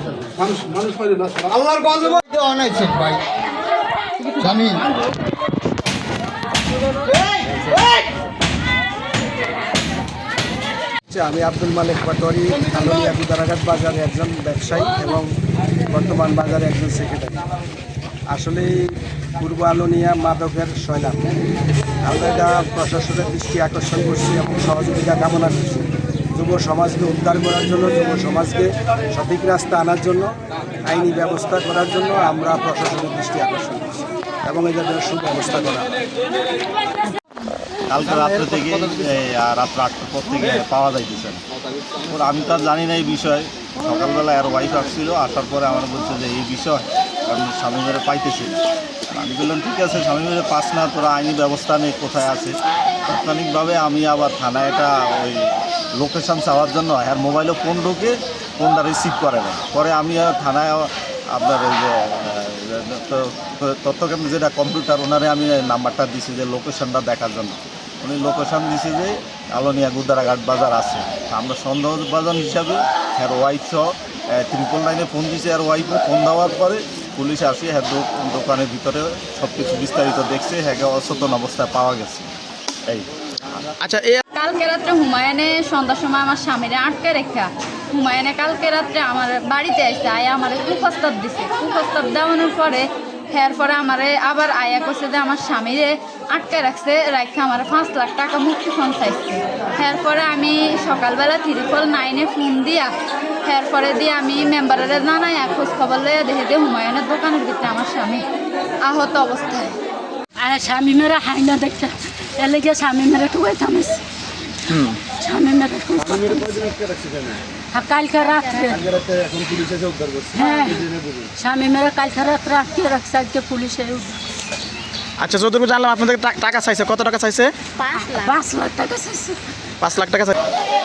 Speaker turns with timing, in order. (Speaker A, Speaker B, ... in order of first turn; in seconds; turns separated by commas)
Speaker A: 0.4-2.2, Speaker B: 1.6-3.2, Speaker B: 4.3-4.8, Speaker C: 11.1-15.3, Speaker C: 15.9-17.4, Speaker C: 18.3-21.3, Speaker C: 22.0-30.3, Speaker C: 30.9-35.9, Speaker D: 37.9-41.4, Speaker D: 42.0-48.6, Speaker D: 49.1-82.3, Speaker E: 83.8-84.2, Speaker F: 84.3-102.9, Speaker F: 103.5-108.2, Speaker F: 108.8-109.8, Speaker G: 110.4-114.0, Speaker G: 115.1-116.7, Speaker A: 116.0-117.4, Speaker G: 117.7-118.8, Speaker A: 118.7-121.3, Speaker G: 120.3-124.2, Speaker E: 125.2-127.5, Speaker G: 127.9-129.4, Speaker E: 129.8-130.3